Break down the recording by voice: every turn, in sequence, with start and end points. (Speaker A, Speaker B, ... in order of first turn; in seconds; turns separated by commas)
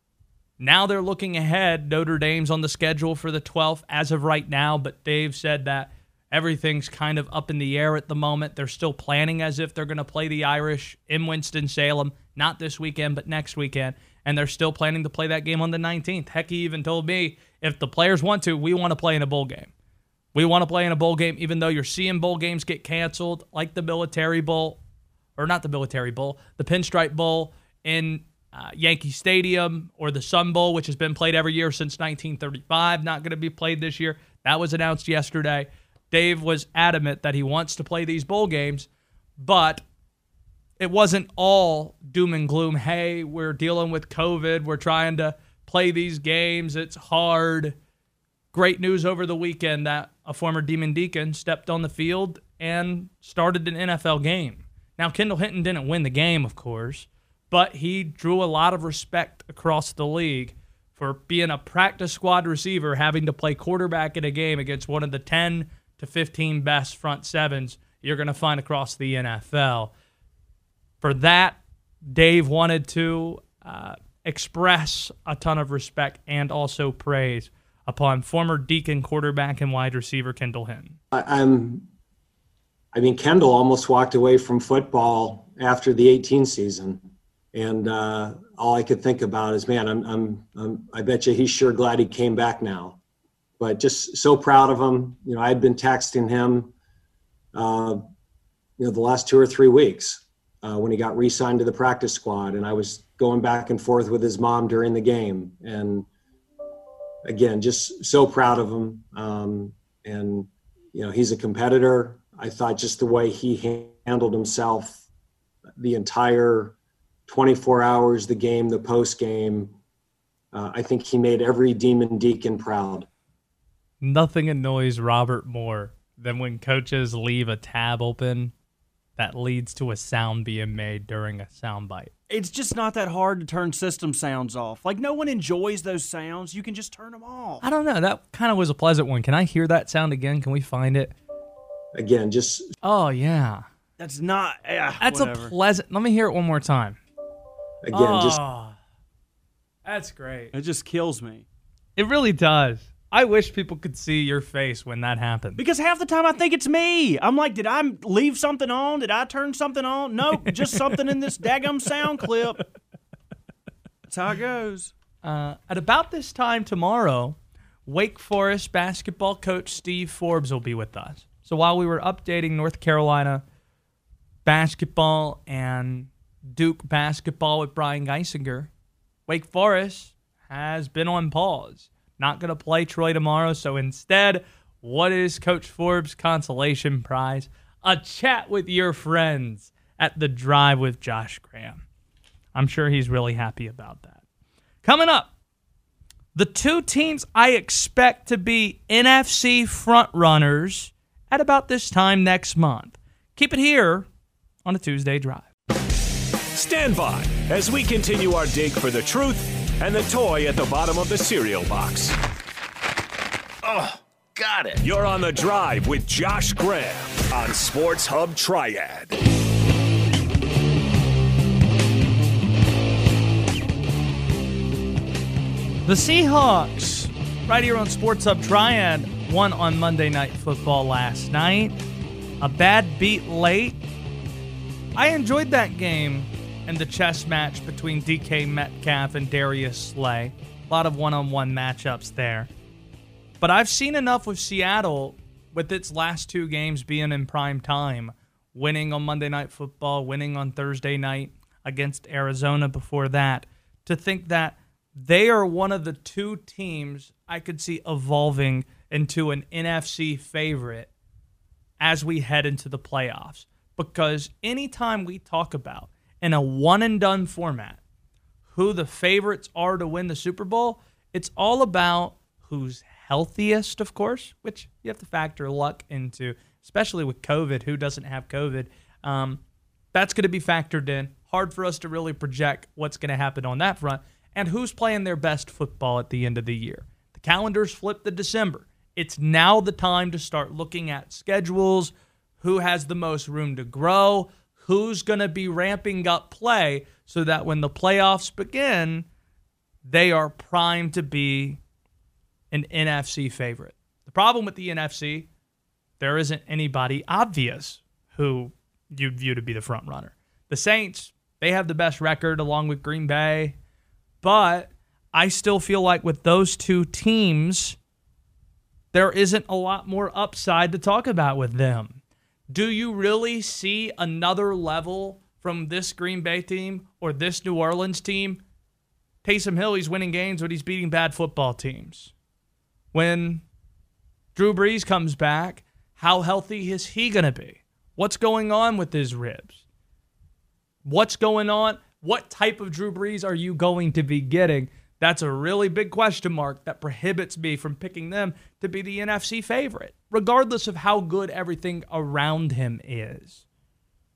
Speaker A: 0.6-19.7, Speaker A: 20.3-24.8, Speaker A: 25.4-38.9, Speaker A: 39.4-39.8, Speaker A: 40.8-47.8, Speaker A: 48.5-69.9, Speaker A: 71.0-71.6, Speaker A: 72.1-81.0, Speaker B: 81.1-81.9, Speaker B: 82.9-87.0, Speaker B: 87.5-93.0, Speaker B: 93.6-96.7, Speaker B: 97.5-98.0, Speaker B: 98.8-106.1, Speaker B: 107.3-115.0, Speaker B: 115.8-116.8, Speaker B: 117.3-119.7, Speaker B: 120.5-123.1, Speaker A: 124.0-128.5, Speaker A: 129.2-132.1, Speaker C: 132.3-137.6, Speaker A: 137.6-141.1, Speaker B: 141.9-142.7, Speaker A: 142.8-143.7, Speaker C: 144.0-145.5, Speaker A: 145.0-147.0, Speaker B: 147.8-148.4, Speaker A: 147.9-148.8, Speaker A: 149.8-150.5, Speaker C: 150.5-151.4, Speaker A: 152.0-155.6, Speaker C: 155.6-162.6, Speaker C: 164.1-164.9, Speaker A: 165.2-173.4, Speaker A: 174.4-178.7, Speaker A: 179.3-191.8, Speaker A: 192.5-194.2, Speaker A: 194.8-195.3, Speaker A: 196.3-204.1, Speaker A: 204.7-205.4, Speaker D: 206.5-212.2, Speaker D: 213.6-219.2, Speaker A: 225.9-231.8, Speaker A: 232.4-233.8, Speaker A: 234.9-242.5, Speaker A: 243.4-260.9, Speaker A: 261.8-267.8, Speaker A: 268.5-279.4, Speaker A: 279.9-299.1, Speaker A: 299.9-301.6, Speaker A: 302.5-305.3, Speaker A: 306.0-313.6, Speaker A: 314.2-317.8, Speaker A: 318.9-322.0, Speaker A: 322.5-328.4, Speaker A: 329.2-332.1, Speaker A: 332.9-333.4, Speaker A: 334.4-339.6, Speaker A: 340.9-353.4